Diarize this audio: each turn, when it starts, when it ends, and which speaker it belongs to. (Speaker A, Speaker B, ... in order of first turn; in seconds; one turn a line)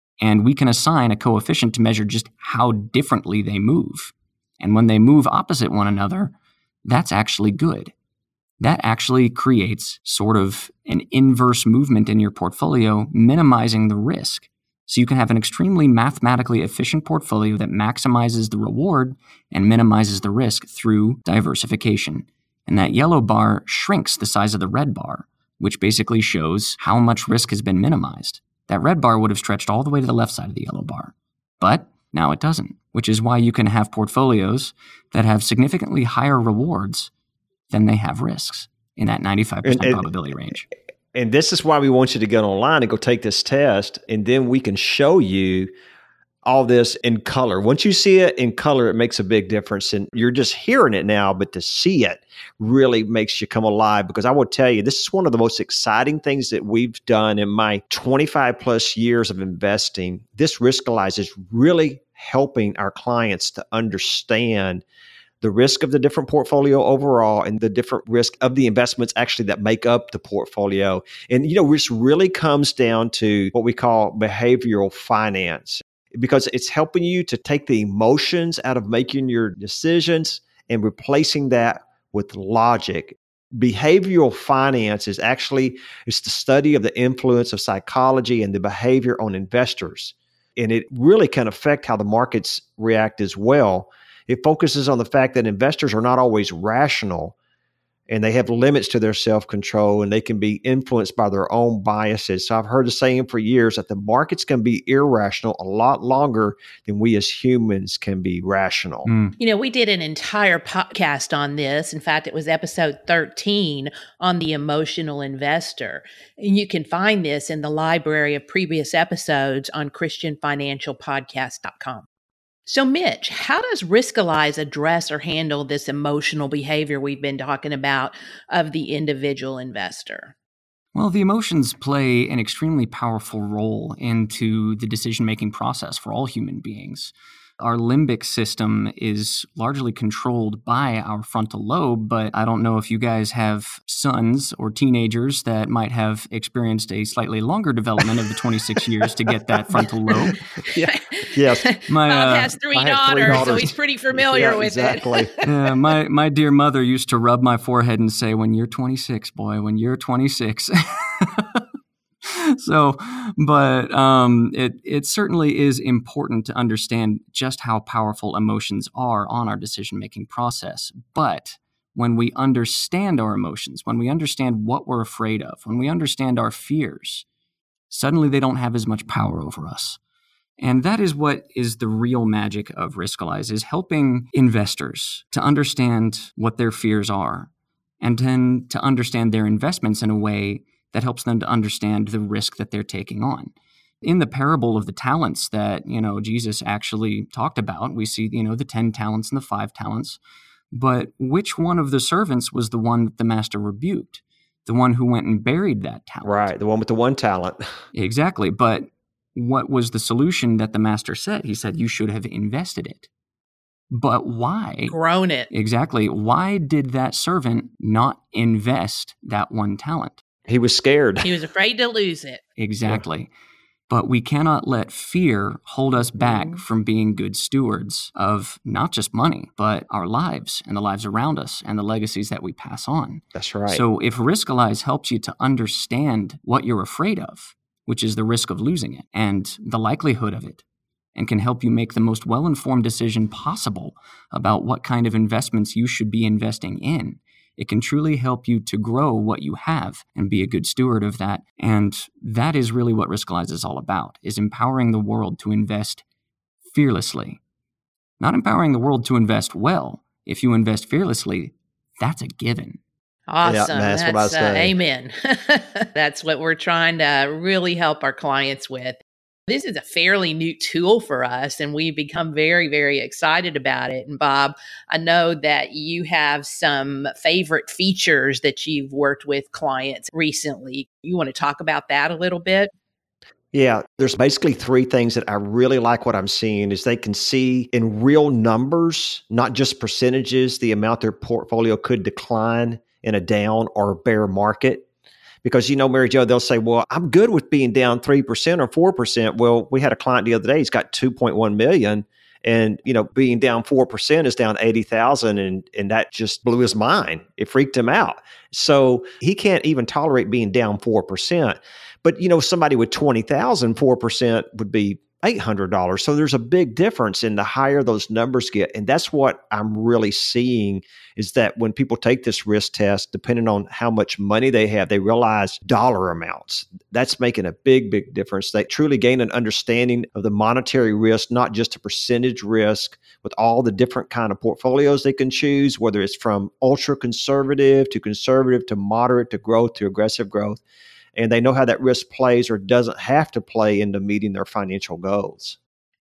Speaker A: 0.2-6.3
Speaker A: 6.8-7.9
Speaker A: 8.6-37.1
Speaker A: 37.7-40.7
Speaker B: 39.6-40.0
Speaker B: 41.1-45.7
Speaker B: 46.5-64.8
Speaker B: 65.4-97.3
Speaker B: 98.1-109.1
Speaker A: 109.0-109.4
Speaker C: 109.4-122.1
Speaker C: 122.7-130.3
Speaker A: 130.9-150.3
Speaker B: 150.1-151.7
Speaker C: 150.9-155.3
Speaker A: 151.9-152.5
Speaker B: 152.7-155.3
Speaker A: 153.3-153.6
Speaker A: 155.4-161.7
Speaker A: 162.2-177.3
Speaker A: 177.9-180.0
Speaker A: 180.6-187.5
Speaker A: 188.0-200.2
Speaker A: 200.7-206.5
Speaker B: 206.2-207.6
Speaker A: 207.9-213.1
Speaker A: 213.9-214.9
Speaker C: 214.9-215.5
Speaker A: 215.5-220.2
Speaker B: 220.5-221.3
Speaker C: 221.2-222.4
Speaker A: 222.6-223.3
Speaker A: 223.9-240.6
Speaker B: 226.2-226.6
Speaker B: 233.3-233.8
Speaker A: 241.2-256.0
Speaker A: 256.7-257.4
Speaker A: 258.2-262.8
Speaker C: 263.3-282.7
Speaker B: 263.4-264.7
Speaker B: 283.5-294.9
Speaker B: 295.4-340.6
Speaker B: 341.2-345.6